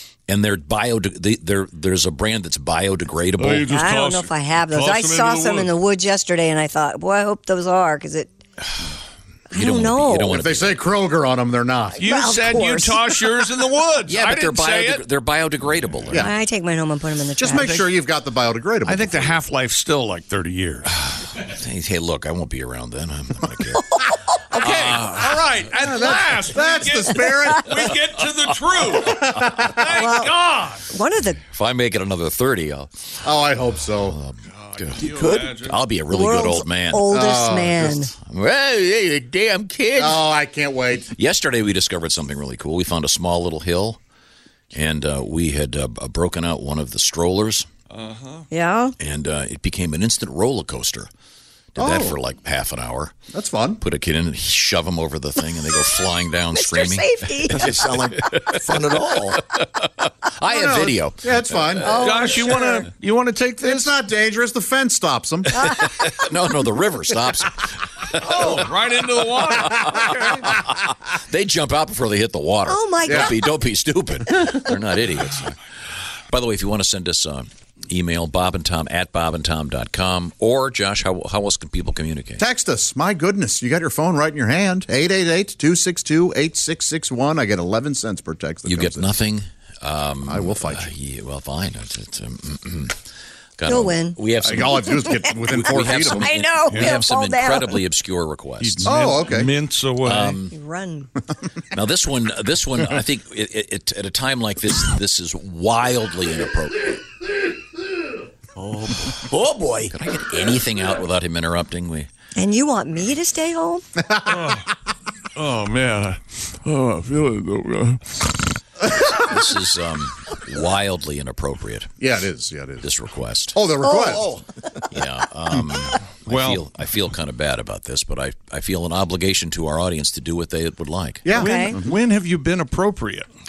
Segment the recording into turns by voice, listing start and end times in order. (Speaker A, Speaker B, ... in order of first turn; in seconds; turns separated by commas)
Speaker A: 0.3-3.9, Speaker B: 3.4-5.7, Speaker C: 3.6-8.3, Speaker C: 9.5-10.4, Speaker A: 9.5-10.8, Speaker D: 10.3-12.0, Speaker C: 12.0-13.2, Speaker B: 12.0-15.1, Speaker A: 14.1-16.3, Speaker C: 16.1-17.8, Speaker D: 17.4-19.4, Speaker B: 18.8-20.9, Speaker A: 20.9-24.0, Speaker A: 24.5-25.6, Speaker B: 24.6-30.8, Speaker D: 25.8-27.9, Speaker D: 29.2-29.8, Speaker C: 29.9-30.3, Speaker C: 30.9-31.4, Speaker A: 31.5-33.1, Speaker D: 33.2-34.2, Speaker A: 34.0-37.1, Speaker B: 34.6-35.8, Speaker E: 35.0-35.5, Speaker C: 36.1-38.1, Speaker D: 37.1-38.0, Speaker A: 38.2-40.3, Speaker D: 40.0-41.1, Speaker A: 41.1-44.0, Speaker A: 44.7-47.6, Speaker B: 47.9-48.5, Speaker C: 48.5-48.9, Speaker A: 49.0-51.1, Speaker A: 51.7-53.2, Speaker D: 51.8-52.1, Speaker D: 53.3-53.8, Speaker A: 53.8-62.0, Speaker C: 56.5-57.7, Speaker E: 57.5-59.4, Speaker D: 60.5-62.1, Speaker C: 61.8-62.9, Speaker B: 62.0-63.9, Speaker D: 63.6-65.7, Speaker C: 65.5-66.0, Speaker A: 65.7-68.5, Speaker B: 68.2-70.5, Speaker A: 69.5-75.6, Speaker C: 72.7-73.4, Speaker D: 73.0-73.4, Speaker A: 76.3-82.4, Speaker D: 82.4-89.1, Speaker A: 88.7-93.0, Speaker D: 90.2-90.9, Speaker A: 93.6-98.9, Speaker C: 93.7-97.8, Speaker D: 94.4-96.3, Speaker B: 96.7-97.0, Speaker B: 98.6-100.4, Speaker D: 98.8-99.5, Speaker A: 100.0-100.5, Speaker C: 100.5-101.1, Speaker A: 101.7-107.0, Speaker A: 108.6-109.2, Speaker E: 109.2-109.9, Speaker A: 109.9-112.1, Speaker C: 112.3-113.8, Speaker B: 114.3-114.7, Speaker B: 115.3-118.3, Speaker A: 119.0-121.9, Speaker D: 122.0-122.9, Speaker A: 122.8-123.6, Speaker D: 123.5-124.3, Speaker C: 123.8-124.2, Speaker A: 124.9-131.3, Speaker B: 126.3-126.6, Speaker D: 131.2-131.9, Speaker B: 131.3-133.3, Speaker C: 131.3-131.8